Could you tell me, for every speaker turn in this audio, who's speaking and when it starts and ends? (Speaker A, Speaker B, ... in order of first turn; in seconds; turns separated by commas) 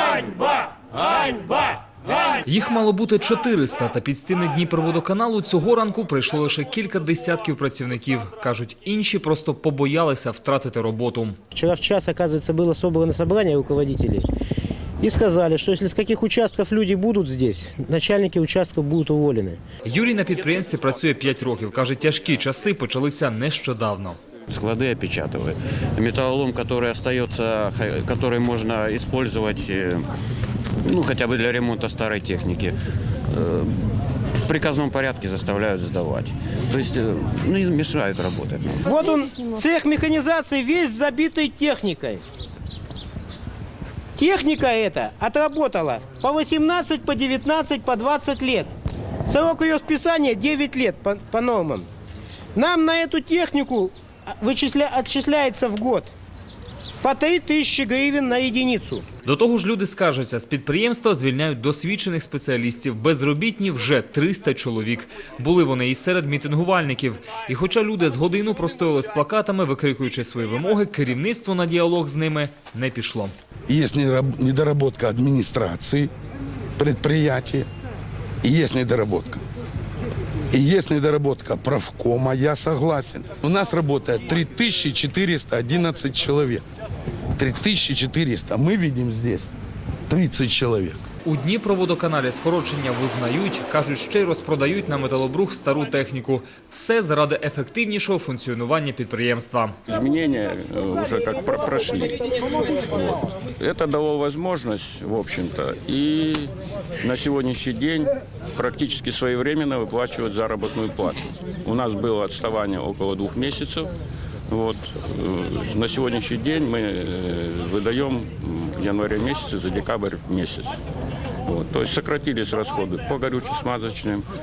Speaker A: 2.5-11.4, Speaker B: 11.5-14.3, Speaker B: 15.0-19.6, Speaker A: 19.9-24.2, Speaker C: 24.5-30.1, Speaker C: 30.8-32.8, Speaker C: 33.3-33.9, Speaker C: 34.5-38.7, Speaker B: 38.8-42.2, Speaker B: 44.2-48.7, Speaker B: 49.2-51.9, Speaker B: 52.5-56.1, Speaker B: 57.0-59.0, Speaker A: 59.2-73.3, Speaker D: 73.7-76.1, Speaker D: 76.8-77.7, Speaker D: 78.4-79.4, Speaker D: 80.5-86.6, Speaker D: 87.4-89.5, Speaker D: 90.1-91.0, Speaker A: 91.2-99.8, Speaker E: 99.9-113.9, Speaker E: 114.5-120.7, Speaker E: 121.5-124.3